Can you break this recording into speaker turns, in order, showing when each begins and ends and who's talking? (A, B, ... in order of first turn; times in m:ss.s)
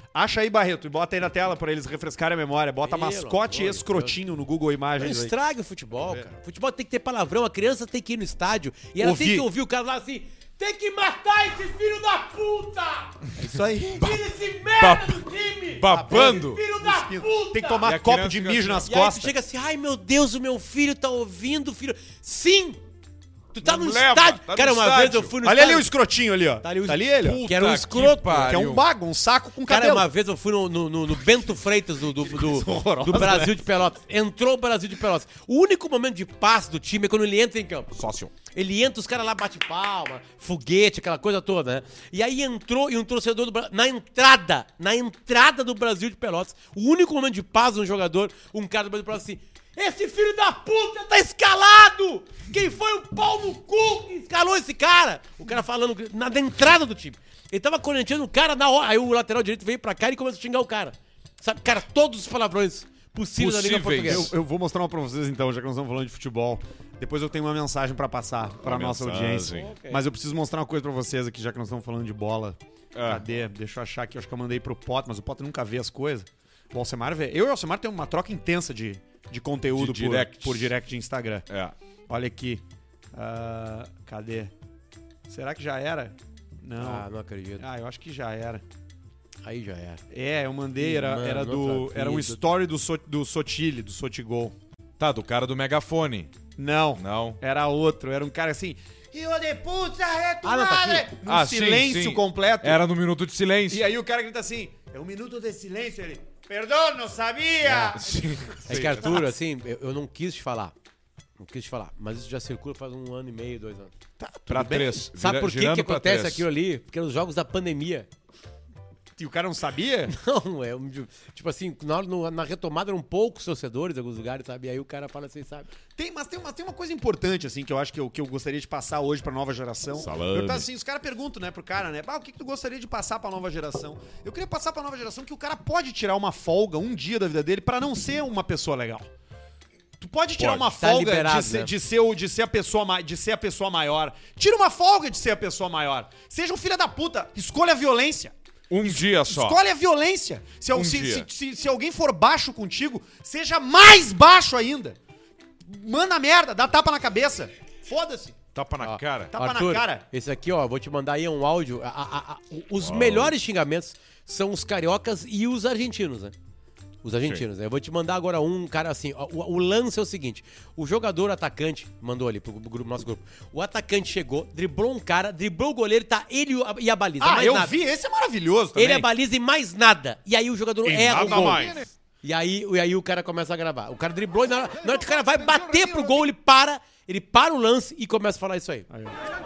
0:00.1-0:05.3 A
0:02.8-0:04.2 B
0:05.0-0:13.3 B
0:06.0-0:06.3 A
0:09.0-0:09.5 A
0:13.4-0:14.2 A
0:13.9-0:17.9 B
0:14.8-0:16.6 C
0:15.9-0:19.3 A
0:17.8-0:18.9 C
0:18.8-0:22.8 B
0:23.5-0:25.9 B
0:23.6-0:25.3 C
0:25.4-0:27.4 A
0:26.6-0:28.5 B
0:27.2-0:28.8 C
0:28.3-0:30.1 A
0:29.7-0:37.9 B
0:32.3-0:33.6 A
0:37.9-0:38.3 C
0:38.5-1:04.3 B
1:03.4-1:04.4 C
1:04.0-1:21.5 A
1:08.6-1:09.7 C
1:09.5-1:10.0 B
1:13.0-1:13.2 C
1:19.7-1:20.8 C
1:21.5-1:21.8 C
1:22.1-1:22.6 A
1:23.1-1:24.5 A
1:25.3-1:27.1 A
1:26.8-1:27.7 B
1:27.6-1:28.6 A
1:29.4-1:30.0 B
1:30.1-1:34.6 A
1:30.8-1:32.4 B
1:35.0-1:36.3 C
1:36.6-1:42.8 A
1:37.0-1:37.4 C
1:40.4-1:41.1 B
1:41.2-1:43.9 C
1:43.7-1:48.2 A
1:47.7-1:49.2 C
1:48.7-1:50.7 B
1:48.7-1:49.2 A
1:51.4-1:53.9 B
1:54.2-1:55.0 A
1:54.5-1:56.5 C
1:55.2-1:58.1 B
1:59.2-2:00.1 A
2:00.1-2:05.7 B
2:06.0-2:19.1 A
2:10.0-2:10.7 C
2:20.0-2:35.0 A
2:20.4-2:21.7 B
2:28.7-2:29.6 C
2:30.7-2:31.3 C
2:35.6-2:38.4 A
2:38.5-2:39.3 C
2:38.8-2:46.3 B
2:39.3-2:40.0 A
2:42.8-2:43.4 C
2:47.0-2:57.7 B
2:57.2-2:59.1 A
2:58.8-3:01.7 B
3:00.8-3:01.8 C
3:01.1-3:01.9 A
3:02.2-3:08.9 B
3:04.8-3:06.2 A
3:08.9-3:09.2 A